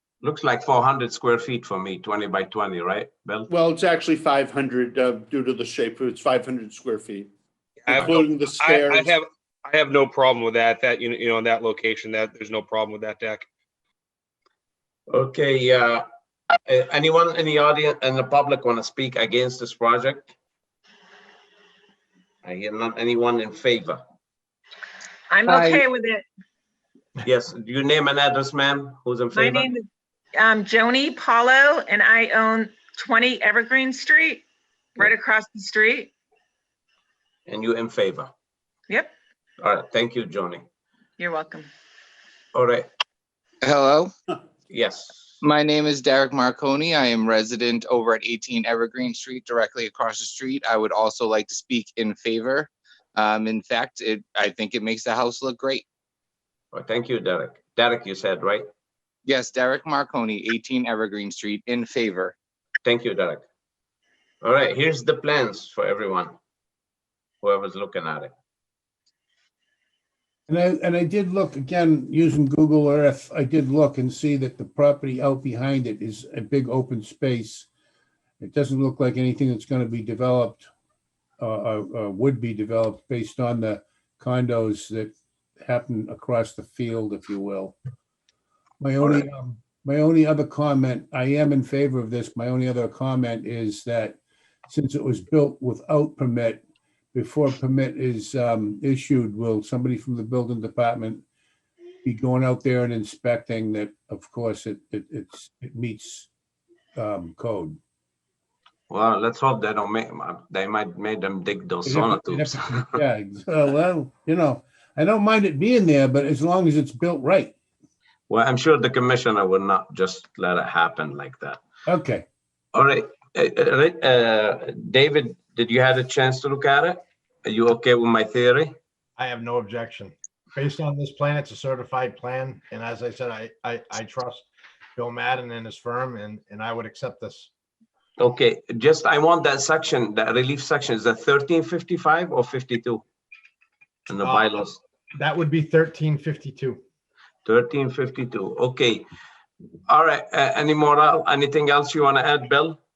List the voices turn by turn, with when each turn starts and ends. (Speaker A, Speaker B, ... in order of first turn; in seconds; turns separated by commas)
Speaker A: 0.2-3.5, Speaker B: 3.5-7.3, Speaker C: 7.9-13.4, Speaker B: 7.9-9.2, Speaker A: 15.1-16.0, Speaker A: 16.7-20.3, Speaker A: 22.4-24.0, Speaker D: 25.3-26.2, Speaker E: 25.5-25.8, Speaker A: 27.3-29.7, Speaker D: 29.3-34.5, Speaker D: 35.0-36.1, Speaker A: 37.5-38.3, Speaker D: 38.9-39.1, Speaker A: 39.6-40.6, Speaker D: 41.2-41.7, Speaker A: 42.5-42.9, Speaker E: 43.6-44.1, Speaker A: 44.7-45.3, Speaker E: 45.4-55.8, Speaker A: 56.7-58.6, Speaker E: 59.2-62.3, Speaker A: 62.8-63.4, Speaker A: 64.4-66.3, Speaker A: 67.4-68.3, Speaker F: 70.5-77.7, Speaker F: 78.4-80.7, Speaker F: 81.4-87.8, Speaker F: 88.8-96.6, Speaker F: 97.1-101.2, Speaker F: 102.0-106.3, Speaker F: 107.0-107.8, Speaker A: 108.9-113.0, Speaker F: 111.9-117.5, Speaker A: 118.3-121.6, Speaker F: 121.9-122.2, Speaker A: 122.7-128.8, Speaker G: 129.2-137.5, Speaker A: 138.2-143.0, Speaker A: 144.1-144.8, Speaker G: 144.2-144.5, Speaker G: 145.2-146.8, Speaker A: 147.5-149.1, Speaker A: 149.9-152.8